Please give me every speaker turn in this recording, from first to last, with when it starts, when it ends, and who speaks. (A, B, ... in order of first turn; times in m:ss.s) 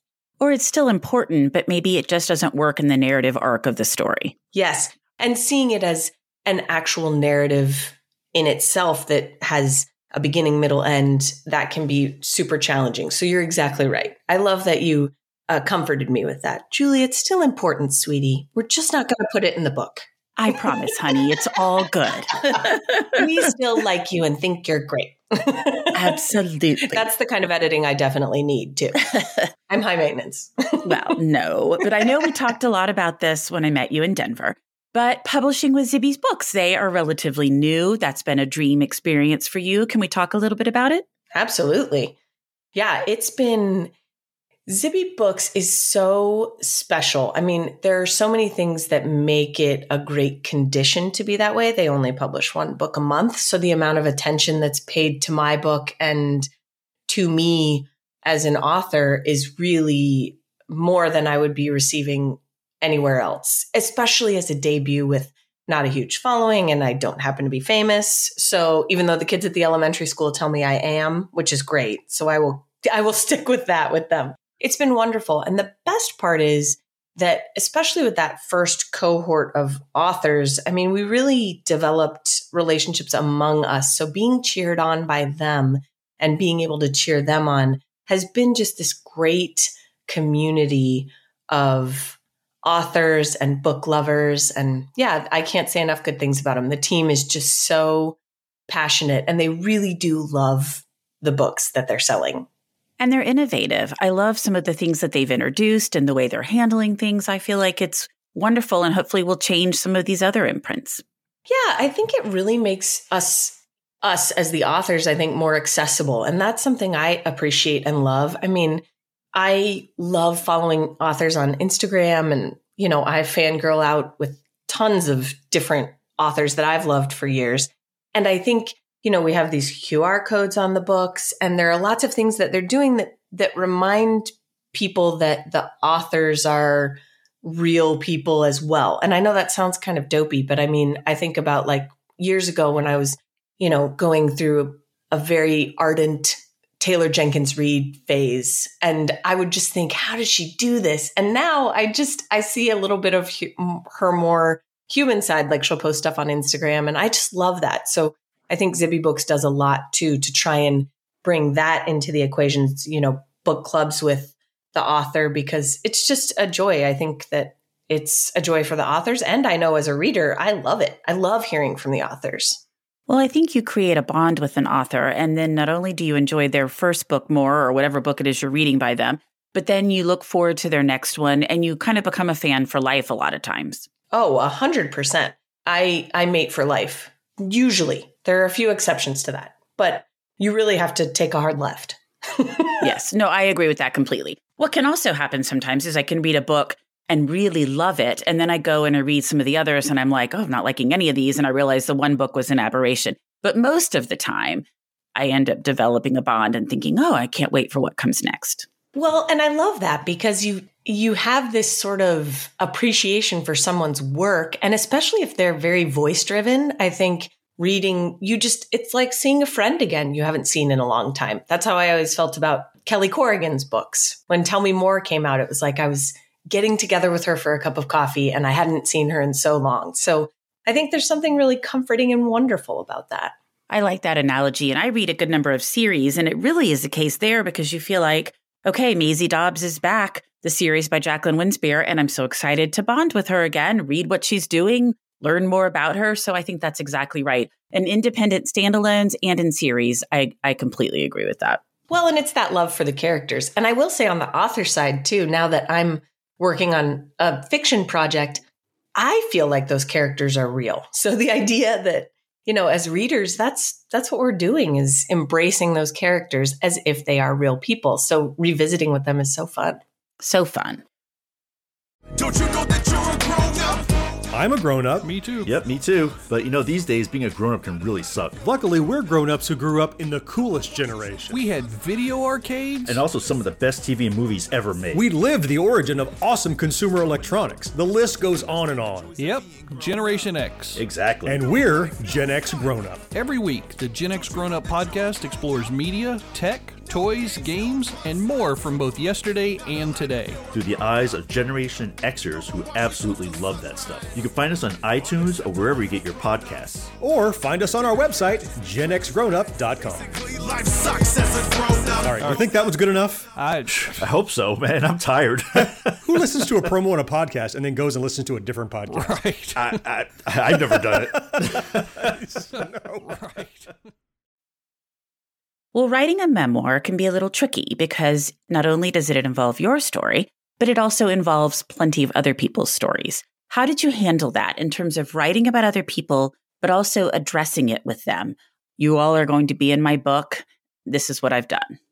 0:00.4-0:04.4 A
0:04.5-0:20.1 B
0:20.4-0:23.2 A
0:22.5-0:26.3 B
0:25.9-0:27.0 A
0:26.8-0:29.1 B
0:29.7-0:31.2 B
0:30.8-0:41.0 A
0:41.3-0:42.2 B
0:42.7-0:43.9 B
0:44.7-0:56.5 B
0:57.1-1:42.5 B
1:43.0-1:51.0 A
1:51.5-2:52.6 B
2:53.1-3:03.9 A
3:04.1-3:12.9 B
3:12.8-3:28.7 A
3:28.9-3:53.4 B
3:53.7-4:11.6 A
4:11.9-4:18.4 B
4:19.0-4:29.8 B
4:30.2-4:30.8 A
4:34.3-4:35.1 C
4:35.0-4:35.5 D
4:35.4-4:38.5 E
4:38.4-4:41.4 C
4:41.3-4:43.0 D
4:42.9-4:45.1 E
4:44.9-4:49.2 C
4:49.2-4:50.8 D
4:50.8-4:51.5 E
4:51.2-4:53.1 C
4:53.1-5:00.4 D
5:00.5-5:06.9 E
5:07.0-5:10.2 C
5:11.2-5:11.6 D
5:12.0-5:13.3 C
5:12.2-5:12.5 D
5:13.3-5:14.0 D
5:13.9-5:16.3 E
5:16.1-5:19.4 C
5:18.9-5:19.6 D
5:19.6-5:21.8 E
5:20.9-5:21.6 C
5:22.4-5:23.7 D
5:22.5-5:23.1 C
5:25.7-5:41.8 A